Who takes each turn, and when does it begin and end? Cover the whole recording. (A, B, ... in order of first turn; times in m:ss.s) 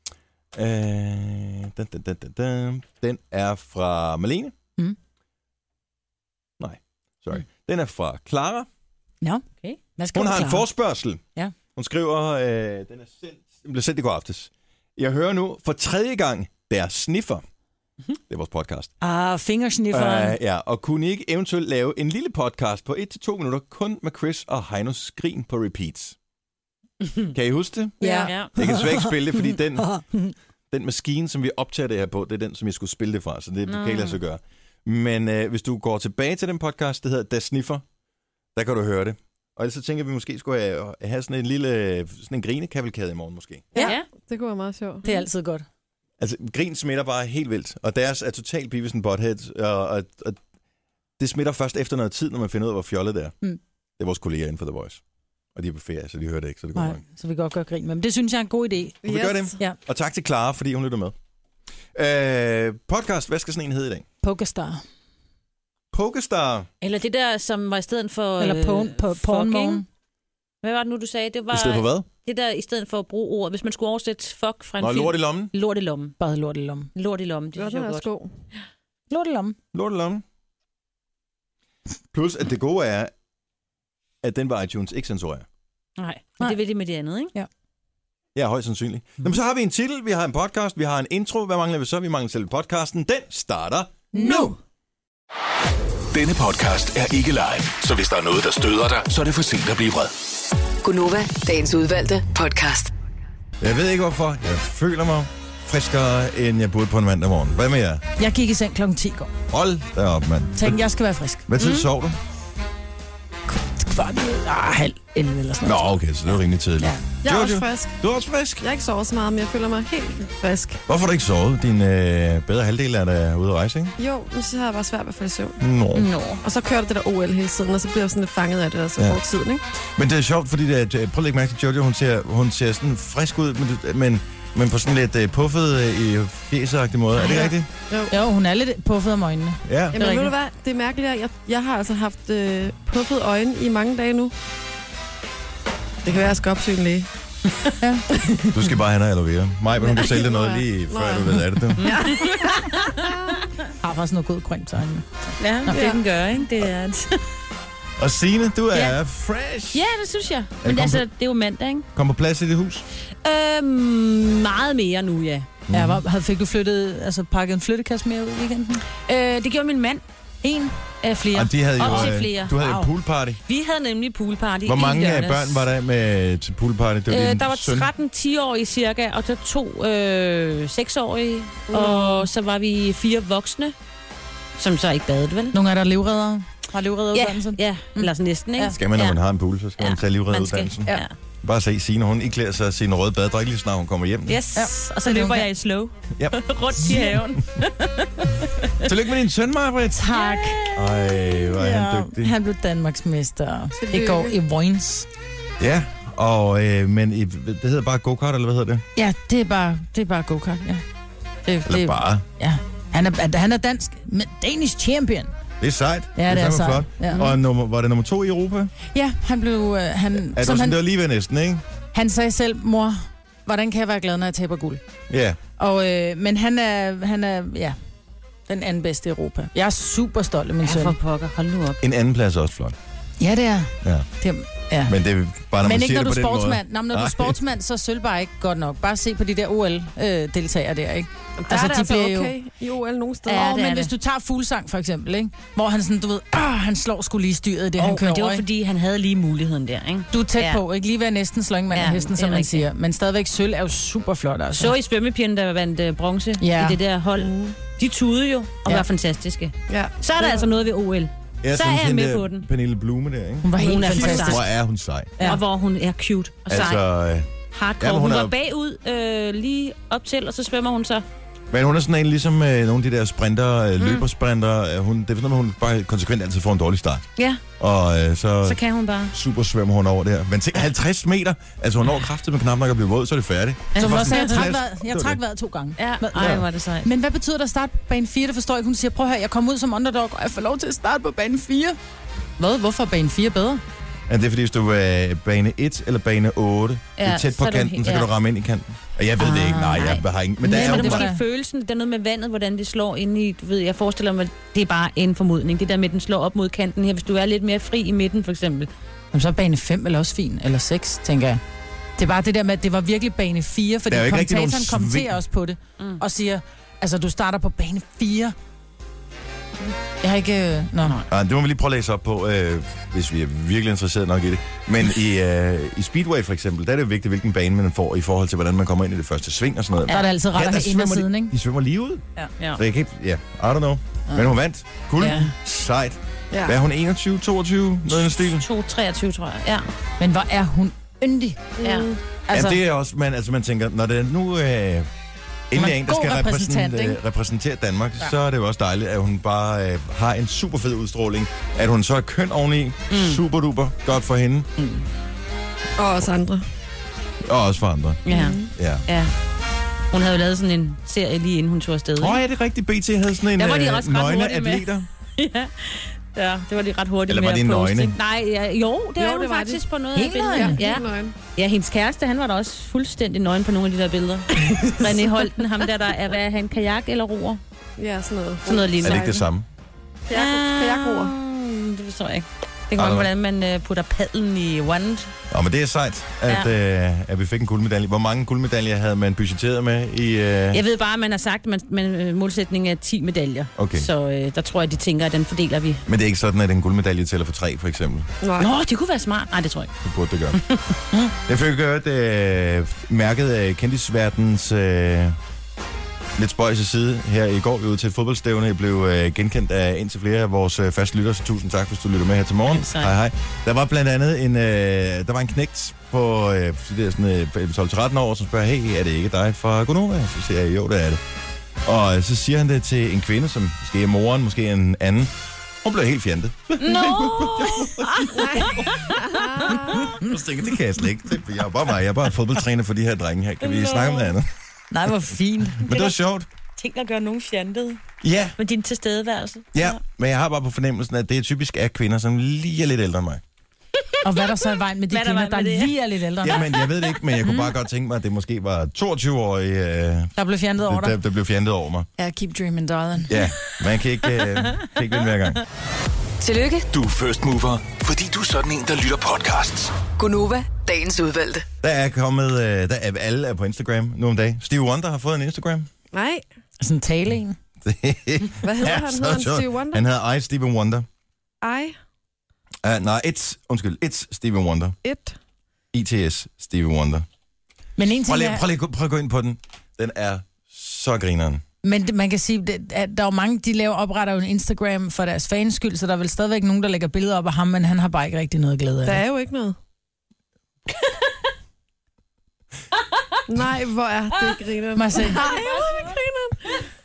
0:00.5-0:04.5 A
0:06.6-0:08.7 A
0:09.2-0:10.7 B
0:10.1-0:11.2 A
0:11.8-0:17.4 A
0:18.3-0:18.9 A
0:19.0-0:20.4 B
0:19.9-0:26.2 A
0:27.3-0:30.0 A
0:28.0-0:29.2 B
0:28.0-0:28.3 C
0:28.2-0:28.5 D
0:29.8-0:30.3 B
0:30.7-0:37.8 A
0:33.7-0:34.2 D
0:38.6-0:43.7 A
0:43.7-0:45.0 C
0:43.8-0:44.1 D
0:45.0-0:45.6 B
0:46.2-0:50.4 A
0:51.2-0:53.3 A
0:54.0-0:55.0 A
0:55.6-0:57.0 A
0:56.8-0:59.0 B
0:59.0-0:59.6 C
0:59.0-1:01.2 A
1:02.0-1:04.0 A
1:04.2-1:04.8 B
1:05.9-1:06.7 A
1:06.8-1:09.8 D
1:08.4-1:09.8 B
1:10.6-1:16.2 D
1:11.5-1:12.1 A
1:14.8-1:15.5 A
1:16.2-1:16.9 B
1:17.0-1:18.1 D
1:17.6-1:18.3 C
1:19.1-1:19.6 B
1:19.7-1:20.2 A
1:22.1-1:23.1 A
1:24.2-1:25.5 A
1:26.0-1:27.3 D
1:28.4-1:34.5 A
1:34.1-1:34.6 B
1:36.1-1:40.1 E
1:40.8-1:42.9 F
1:43.6-1:48.0 A
1:48.2-1:49.3 B
1:49.5-1:50.8 A
1:50.6-1:51.5 B
1:51.5-1:52.2 A
1:51.6-1:51.9 D
1:53.5-1:55.9 B
1:55.6-1:58.7 A
1:57.2-1:58.0 C
1:58.6-2:00.8 C
2:00.9-2:04.0 A
2:04.0-2:05.6 C
2:05.6-2:06.1 A
2:05.9-2:06.4 D
2:06.4-2:09.6 C
2:10.0-2:17.7 A
2:17.2-2:18.2 C
2:18.1-2:20.3 B
2:19.7-2:20.0 A
2:19.9-2:24.3 C
2:26.0-2:27.1 C
2:27.8-2:28.0 B
2:28.1-2:28.6 C
2:28.5-2:31.8 A
2:29.8-2:32.6 C
2:31.8-2:33.4 D
2:33.8-2:35.9 B
2:35.4-2:37.2 D
2:35.7-2:36.0 C
2:38.0-2:39.8 A
2:39.7-2:41.9 D
2:40.6-2:41.1 A
2:42.0-2:42.9 A
2:43.2-2:45.5 D
2:45.7-2:46.0 A
2:45.7-2:48.8 B
2:49.0-2:50.0 D
2:50.4-2:52.8 B
2:51.0-2:52.7 D
2:51.3-2:53.4 A
2:53.5-2:55.6 D
2:54.6-2:57.9 A
2:57.1-3:03.7 D
3:01.7-3:02.3 C
3:04.6-3:05.6 D
3:05.5-3:08.8 B
3:07.1-3:09.2 D
3:08.8-3:14.4 A
3:09.8-3:11.1 D
3:14.3-3:18.9 D
3:14.6-3:15.4 B
3:16.8-3:17.2 B
3:18.8-3:20.1 A
3:19.9-3:20.6 B
3:20.1-3:20.8 D
3:20.7-3:22.4 A
3:21.4-3:25.1 B
3:23.8-3:24.4 C
3:25.6-3:28.8 A
3:29.0-3:30.8 B
3:31.5-3:35.3 B
3:31.6-3:32.2 A
3:35.6-3:38.7 A
3:36.2-3:37.3 B
3:38.9-3:40.8 B
3:40.2-3:41.6 A
3:41.9-3:44.8 B
3:45.1-3:45.4 A
3:45.6-3:47.8 B
3:48.5-3:51.0 B
3:50.6-3:51.8 D
3:51.8-3:52.8 A
3:53.2-3:55.0 B
3:53.8-3:54.1 A
3:54.9-3:57.4 A
3:55.6-4:02.3 B
4:01.4-4:03.5 C
4:03.3-4:08.4 B
4:03.3-4:03.9 D
4:07.8-4:10.6 D
4:10.1-4:14.7 B
4:11.7-4:12.6 D
4:14.6-4:22.5 D
4:16.4-4:16.8 B
4:17.2-4:17.5 C
4:19.7-4:20.5 C
4:21.4-4:25.2 A
4:23.4-4:24.4 B
4:23.6-4:24.5 D
4:25.2-4:26.8 D
4:26.5-4:28.3 A
4:27.5-4:31.0 D
4:31.5-4:37.1 A
4:33.8-4:34.1 D
4:37.6-4:38.6 A
4:38.4-4:39.1 D
4:39.1-4:45.2 A
4:43.7-4:44.4 D
4:43.8-4:51.8 B
4:45.8-4:46.9 D
4:46.2-4:46.4 A
4:52.4-4:53.6 B
4:54.1-5:01.1 A
4:57.0-4:58.1 D
4:59.2-4:59.8 B
4:59.6-5:08.7 D
5:00.4-5:01.2 B
5:09.1-5:11.4 B
5:12.0-5:18.4 B
5:13.9-5:15.2 A
5:20.0-5:21.0 B
5:20.8-5:21.1 D
5:21.1-5:38.5 A
5:29.9-5:31.4 B
5:34.1-5:34.4 B
5:35.0-5:35.3 B
5:35.0-5:35.3 D
5:36.3-5:36.6 C
5:38.0-5:39.7 D
5:40.0-5:41.4 B
5:41.6-5:42.0 C
5:41.6-5:41.9 D
5:42.3-5:42.6 B
5:42.3-5:44.9 A
5:45.5-5:54.5 A
5:45.6-5:47.0 B
5:52.9-5:53.2 D
5:55.8-5:56.4 C
5:57.2-5:58.0 A
5:58.0-5:59.1 D
5:58.1-5:58.5 C
5:58.6-5:58.8 A
5:59.9-6:02.2 D
6:02.0-6:04.9 A
6:03.4-6:17.4 D
6:07.1-6:08.0 A
6:09.0-6:09.6 C
6:10.0-6:10.6 B
6:10.3-6:11.2 C
6:14.4-6:14.9 C
6:17.8-6:19.2 C
6:18.5-6:19.3 D
6:18.8-6:19.5 A
6:20.1-6:21.2 C
6:20.1-6:25.1 D
6:22.8-6:23.1 A
6:25.3-6:30.6 A
6:30.5-6:35.9 D
6:33.6-6:33.9 A
6:35.9-6:38.1 A
6:38.2-6:38.5 C
6:38.4-6:39.7 D
6:39.8-6:40.4 A
6:40.4-6:41.1 D
6:41.3-6:45.2 A
6:46.2-7:01.0 A
6:52.5-6:52.9 D
7:01.6-7:08.9 A
7:06.6-7:09.6 D
7:09.0-7:09.9 C
7:09.5-7:14.3 A
7:13.4-7:14.1 D
7:14.7-7:15.6 B
7:15.6-7:16.3 A
7:15.6-7:16.0 D
7:16.6-7:17.8 D
7:18.0-7:18.4 A
7:18.4-7:19.8 D
7:19.5-7:23.2 A
7:23.8-7:25.7 D
7:24.0-7:26.4 B
7:26.2-7:31.9 A
7:26.5-7:26.8 D
7:27.2-7:27.5 B
7:30.2-7:31.0 B
7:32.0-7:33.2 B
7:33.1-7:35.4 A
7:36.2-7:36.7 F
7:36.7-7:39.8 E
7:40.0-7:41.5 F
7:41.6-7:45.7 A
7:45.9-7:46.2 C
7:46.6-7:47.4 B
7:47.6-7:50.9 A
7:48.4-7:49.8 C
7:51.4-7:51.8 C
7:52.6-7:54.8 A
7:54.8-7:55.2 C
7:55.7-7:57.1 A
7:57.8-7:58.4 B
7:58.1-8:01.4 A
8:01.6-8:09.0 B
8:08.8-8:09.6 C
8:13.3-8:16.7 C
8:14.8-8:15.5 B
8:15.1-8:16.0 D